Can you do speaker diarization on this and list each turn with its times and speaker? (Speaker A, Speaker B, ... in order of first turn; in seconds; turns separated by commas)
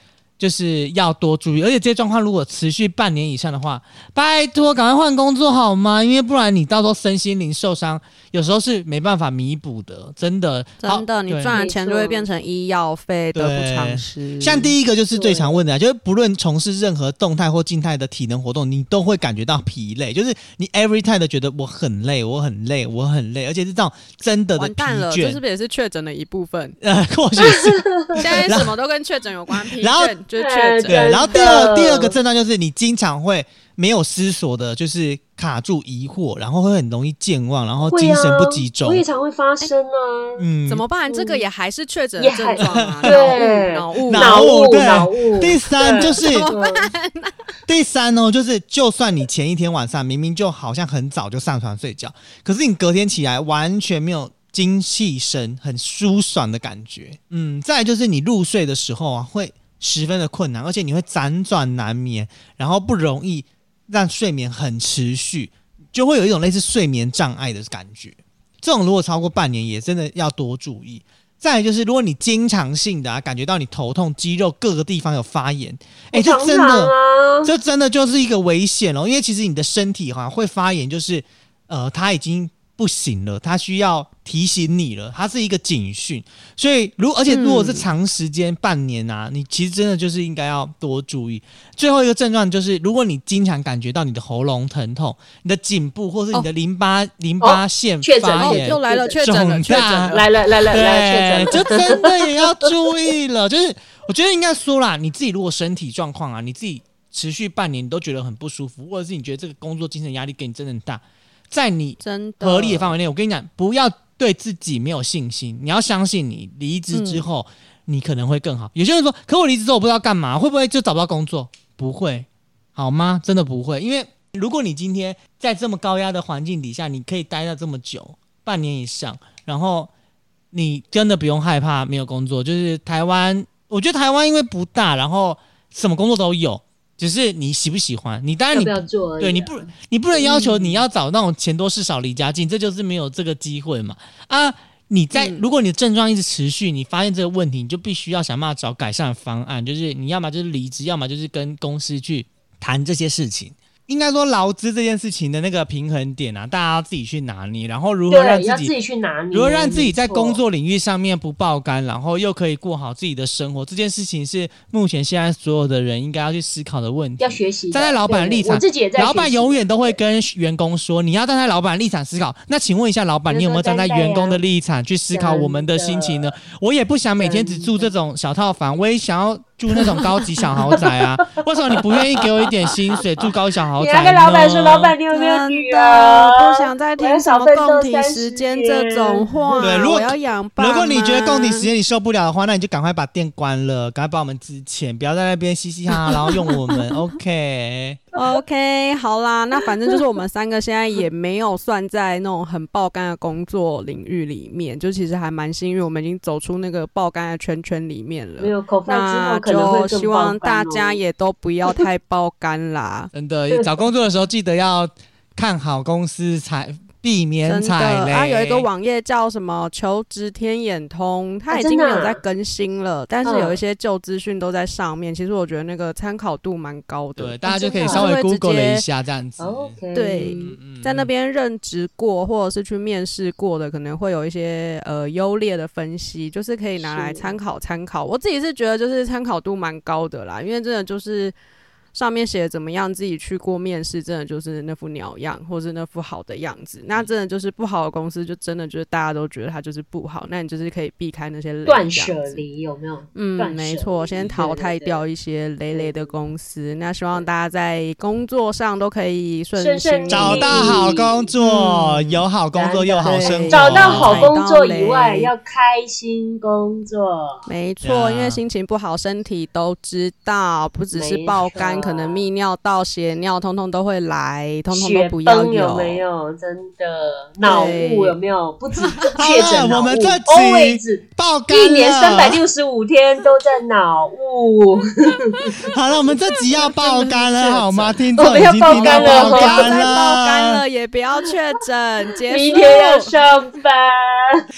Speaker A: 0.4-11.6, Speaker B: 10.8-14.7, Speaker C: 11.5-12.3, Speaker A: 13.3-25.4, Speaker C: 15.1-15.6, Speaker B: 24.6-26.8, Speaker A: 26.8-28.7, Speaker C: 27.4-28.3, Speaker B: 28.2-31.3, Speaker A: 29.5-30.1, Speaker C: 30.4-32.1, Speaker A: 30.9-39.0, Speaker C: 37.9-40.5, Speaker A: 40.4-40.9, Speaker B: 40.7-44.5, Speaker C: 41.1-41.4, Speaker C: 42.2-46.9, Speaker A: 42.6-43.4, Speaker A: 44.0-46.5, Speaker B: 46.1-47.4, Speaker A: 47.7-129.9, Speaker C: 76.1-77.5, Speaker B: 87.3-87.9, Speaker C: 97.4-99.2, Speaker B: 98.4-100.2, Speaker C: 100.1-102.7, Speaker B: 112.0-112.9, Speaker B: 116.9-117.2, Speaker A: 130.5-158.7, Speaker C: 138.5-140.8, Speaker B: 145.1-145.4, Speaker C: 158.1-160.4, Speaker A: 159.3-184.9, Speaker C: 167.2-170.0, Speaker C: 173.3-174.4, Speaker C: 175.1-176.4, Speaker C: 177.2-177.9, Speaker C: 180.7-181.3, Speaker C: 183.8-190.0, Speaker B: 185.1-191.7, Speaker A: 189.6-198.0, Speaker B: 198.1-213.1, Speaker C: 208.4-211.0, Speaker A: 213.1-218.7, Speaker B: 217.4-228.8, Speaker C: 221.5-222.2, Speaker C: 223.2-223.6, Speaker A: 227.2-231.1, Speaker C: 227.4-228.1, Speaker C: 229.4-230.6, Speaker B: 229.9-241.3, Speaker C: 236.8-237.3, Speaker B: 241.9-252.4, Speaker C: 251.7-255.0, Speaker B: 253.1-260.8, Speaker C: 255.7-256.1, Speaker C: 259.6-261.3, Speaker A: 260.1-264.3, Speaker B: 261.4-262.2, Speaker C: 262.5-267.5, Speaker B: 263.0-265.3, Speaker B: 267.5-276.0, Speaker A: 267.8-268.4, Speaker C: 270.9-272.2, Speaker C: 274.7-285.7, Speaker B: 277.4-278.2, Speaker B: 278.9-279.2, Speaker A: 279.1-282.4, Speaker A: 285.7-290.6, Speaker B: 286.1-293.1, Speaker C: 288.1-289.9, Speaker C: 292.3-294.4